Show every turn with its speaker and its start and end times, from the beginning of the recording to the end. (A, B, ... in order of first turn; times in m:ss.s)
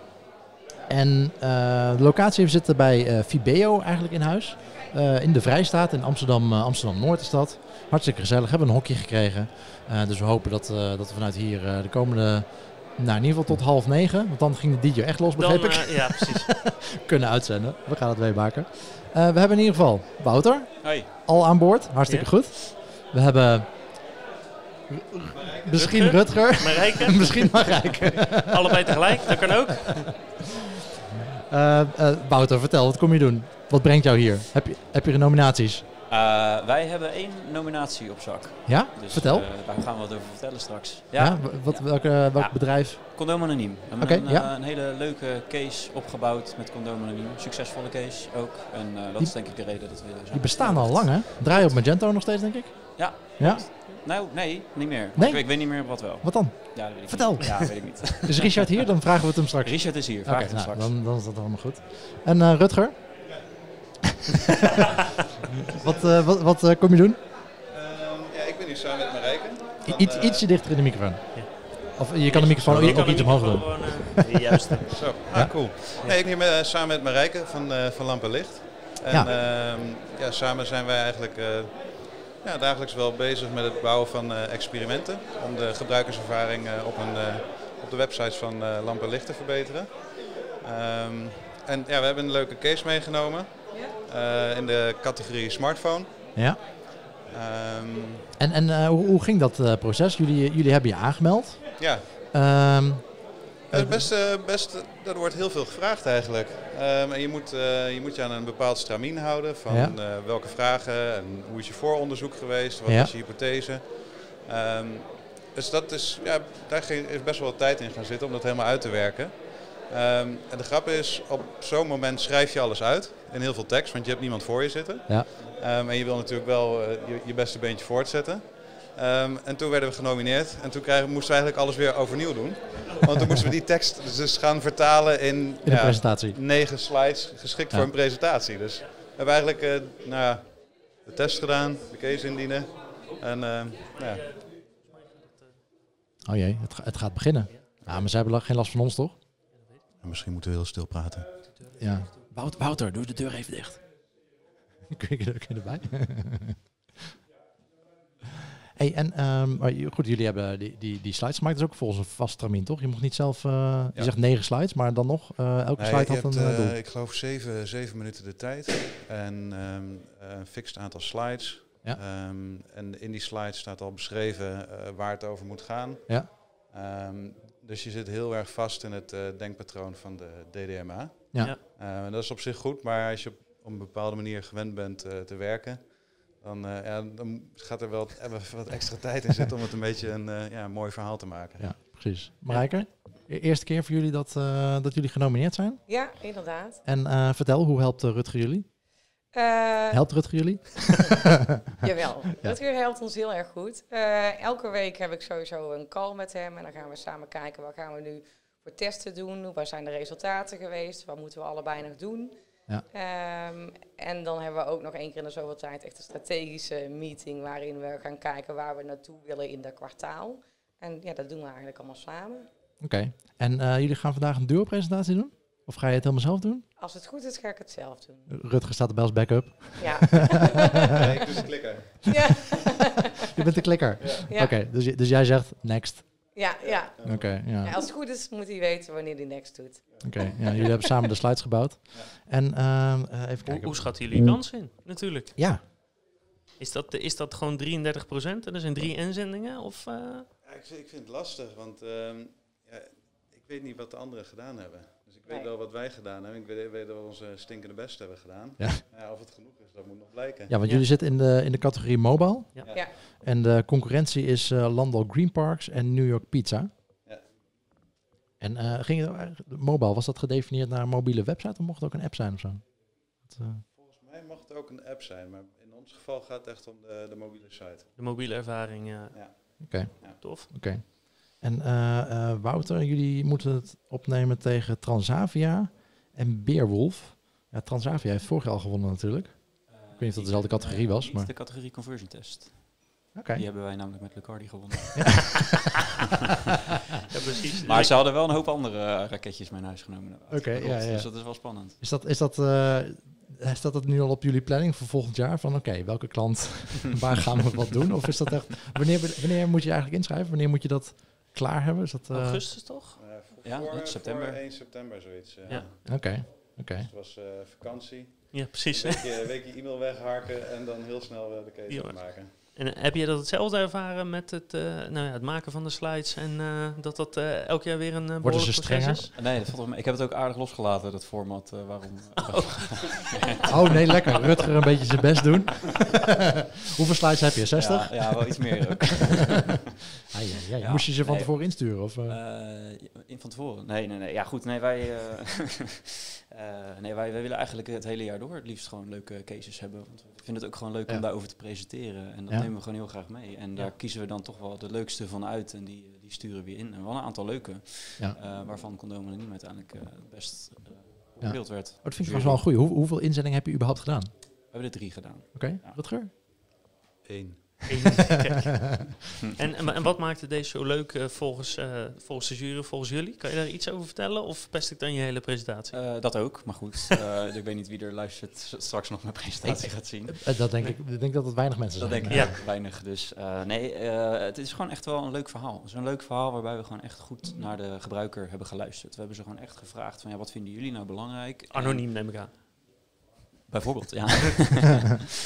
0:00.9-0:24.1 A
0:15.4-0:16.6 B
0:20.8-0:21.1 C
0:22.0-0:22.3 B
0:24.9-0:29.5 A
0:25.3-0:26.0 D
0:25.7-0:30.2 B
0:31.5-0:35.8 A
0:36.1-0:51.8 C
0:38.6-0:39.5 A
0:41.2-0:44.5 A
0:49.2-0:53.6 A
0:53.0-0:58.8 C
0:55.1-1:03.3 A
0:59.6-1:00.9 C
1:05.6-1:07.2 A
1:05.7-1:06.1 D
1:07.7-1:10.4 D
1:09.8-1:14.4 A
1:11.3-1:15.3 B
1:14.9-1:36.3 D
1:33.7-1:34.0 E
1:36.3-1:36.6 A
1:37.3-1:38.2 D
1:38.4-1:44.1 A
1:41.8-1:42.1 D
1:43.7-2:24.3 D
1:49.7-1:50.0 A
1:52.8-1:53.1 A
2:15.6-2:16.4 A
2:23.0-2:25.6 B
2:26.2-2:29.2 A
2:27.8-2:28.1 D
2:29.5-2:29.8 B
2:30.0-2:31.5 D
2:31.5-2:32.2 B
2:31.8-2:34.0 A
2:34.9-2:36.6 A
2:38.7-2:46.8 A
2:45.8-3:11.8 D
3:11.6-3:15.8 A
3:12.5-3:12.8 B
3:15.9-3:16.8 E
3:16.8-3:18.7 A
3:19.3-3:20.0 E
3:19.9-3:21.2 A
3:21.8-3:32.3 E
3:32.9-3:42.5 E
3:42.8-3:46.6 A
3:46.8-3:48.3 E
3:48.3-3:50.4 A
3:49.8-3:51.1 E
3:50.9-3:52.1 D
3:52.0-3:53.3 E
3:53.3-3:56.3 A
3:54.0-3:54.3 D
3:54.3-3:54.6 E
3:56.3-4:00.7 E
3:56.6-3:57.5 D
3:57.0-3:57.7 A
3:59.9-4:00.7 D
4:00.0-4:04.2 A
4:03.4-4:05.3 B
4:05.4-4:05.6 A
4:06.6-4:10.3 B
4:10.4-4:20.5 D
4:15.2-4:15.5 E
4:20.5-4:26.7 A
4:22.7-4:22.9 E
4:27.0-4:27.3 D
4:28.4-4:33.6 A
4:33.7-4:37.9 D
4:38.0-4:39.6 B
4:39.1-4:40.2 D
4:39.6-4:51.3 A
4:40.2-4:40.5 B
4:49.7-4:55.4 C
4:53.1-4:53.4 A
4:55.0-4:55.4 A
4:57.1-4:58.0 B
4:57.6-5:01.8 C
5:00.3-5:12.4 A
5:12.1-5:13.0 B
5:12.9-5:22.3 D
5:13.4-5:14.4 C
5:15.8-5:16.9 A
5:18.3-5:19.1 B
5:21.7-5:29.1 B
5:28.2-5:29.1 A
5:29.2-5:33.4 C
5:32.2-5:33.1 B
5:33.5-5:36.2 A
5:36.7-5:39.0 A
5:37.5-5:39.6 C
5:40.1-5:42.2 A
5:40.6-6:02.4 C
6:01.2-6:04.1 A
6:04.5-6:05.8 C
6:05.3-6:06.1 A
6:07.0-6:08.0 D
6:07.7-6:08.6 B
6:09.4-6:15.9 B
6:15.7-6:20.3 C
6:19.4-6:22.3 A
6:21.8-6:31.8 C
6:22.1-6:22.4 B
6:31.5-6:32.3 B
6:33.5-6:35.0 C